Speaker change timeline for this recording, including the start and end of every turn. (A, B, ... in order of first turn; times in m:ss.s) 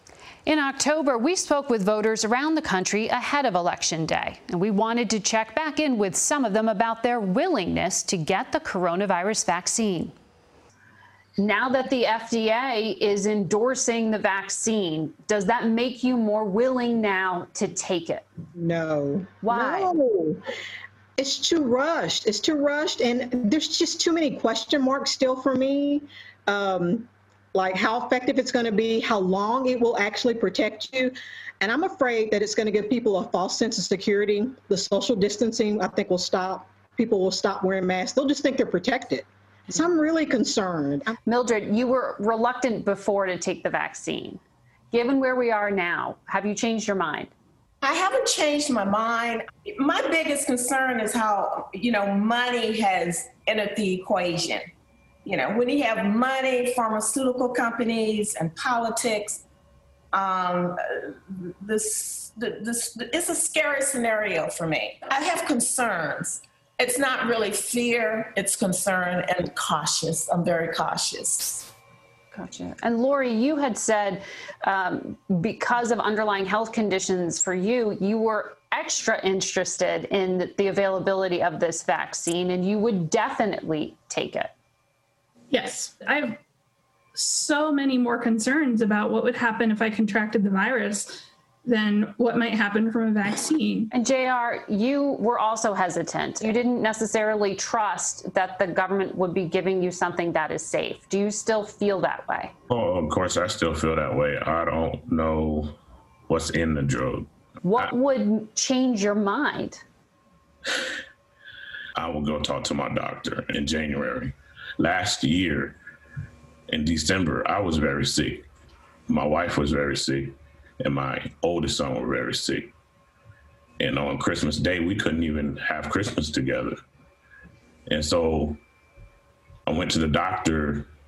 0:00.5-0:10.1 A
0:11.4-0:18.2 A
0:18.6-0:20.4 B
0:19.4-0:19.9 A
0:21.2-0:41.2 B
0:41.3-0:44.4 A
0:44.9-0:47.3 A
0:47.8-0:54.7 C
0:55.2-0:59.4 C
1:00.1-1:11.7 C
1:12.3-1:24.5 A
1:25.5-1:26.4 D
1:27.2-1:33.9 D
1:33.9-1:42.5 A
1:42.7-1:45.8 E
1:46.3-1:47.9 E
1:47.6-1:49.8 A
1:52.0-1:55.8 E
1:56.7-1:58.4 E
1:59.1-2:02.7 E
2:03.8-2:06.8 E
2:07.9-2:08.6 E
2:09.7-2:10.9 E